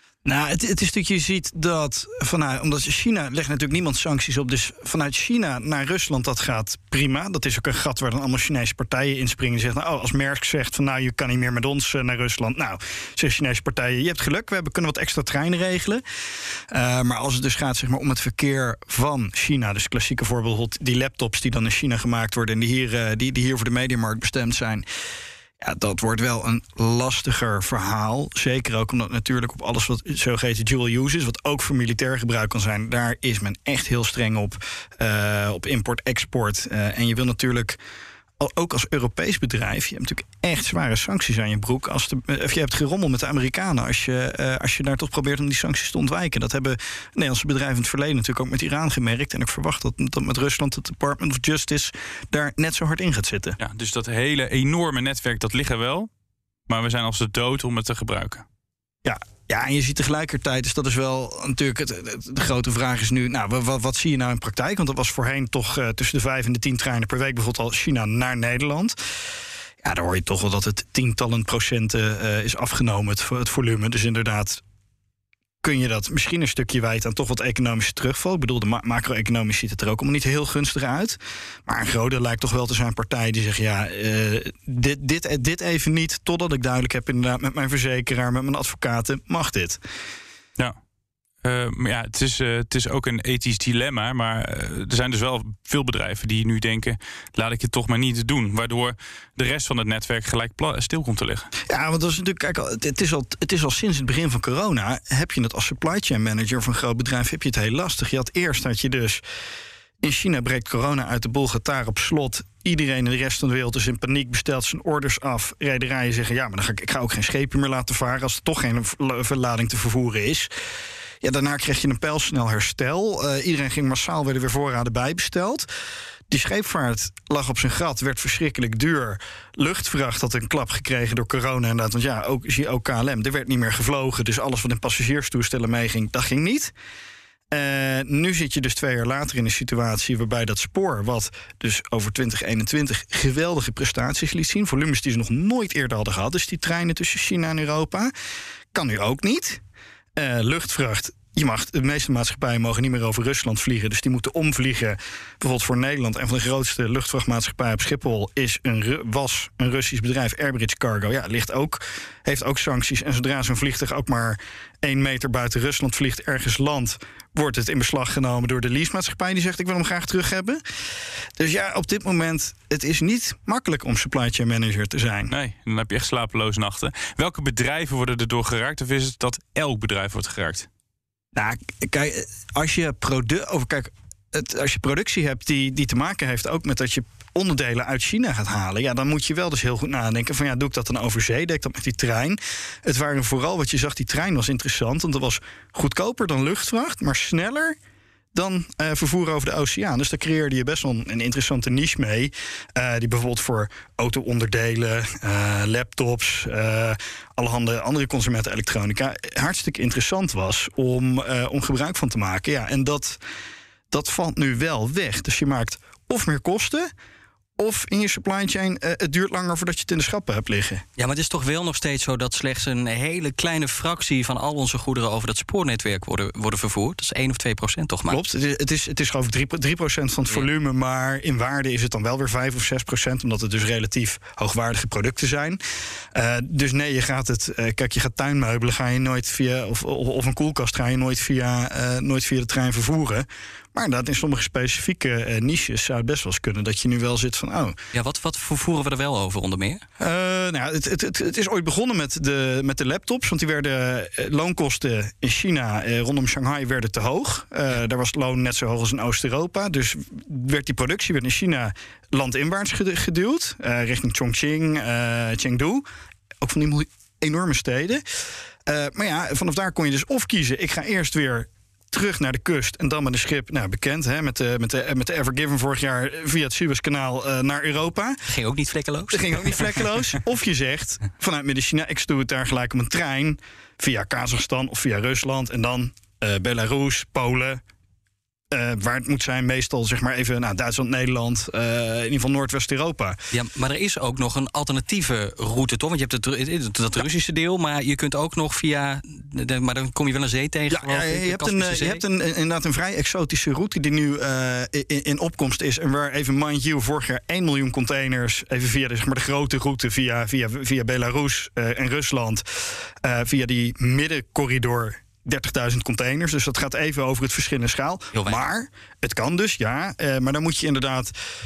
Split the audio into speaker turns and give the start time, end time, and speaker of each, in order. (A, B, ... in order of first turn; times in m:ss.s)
0:00.2-0:16.0 A
0:16.7-0:24.8 A
0:25.6-0:37.8 A
0:38.4-0:53.6 A
0:53.6-0:56.1 B
0:56.7-0:58.4 B
0:59.0-1:09.0 A
1:09.8-1:14.6 A
1:15.6-1:29.8 A
1:31.4-1:41.5 B
1:41.7-1:49.2 A
1:50.0-2:00.5 A
2:01.2-2:05.7 A
2:06.3-2:16.7 A
2:17.5-2:28.1 A
2:28.7-2:29.6 A
2:30.2-2:50.6 A
2:51.4-2:55.3 A
2:55.3-3:00.7 B
3:01.4-3:17.8 A
3:18.3-3:33.2 A
3:33.9-3:36.9 A
3:37.6-3:40.8 A
3:41.0-3:48.2 C
3:48.1-3:55.6 A
3:56.1-4:07.8 A
4:07.9-4:09.8 C
4:10.0-4:25.8 A
4:26.4-4:28.0 A
4:28.7-4:38.2 A
4:38.3-4:39.8 C
4:39.1-4:47.6 A
4:48.5-4:53.2 A
4:53.3-5:02.0 C
5:00.7-5:12.4 A
5:13.0-5:21.1 A
5:18.1-5:18.4 C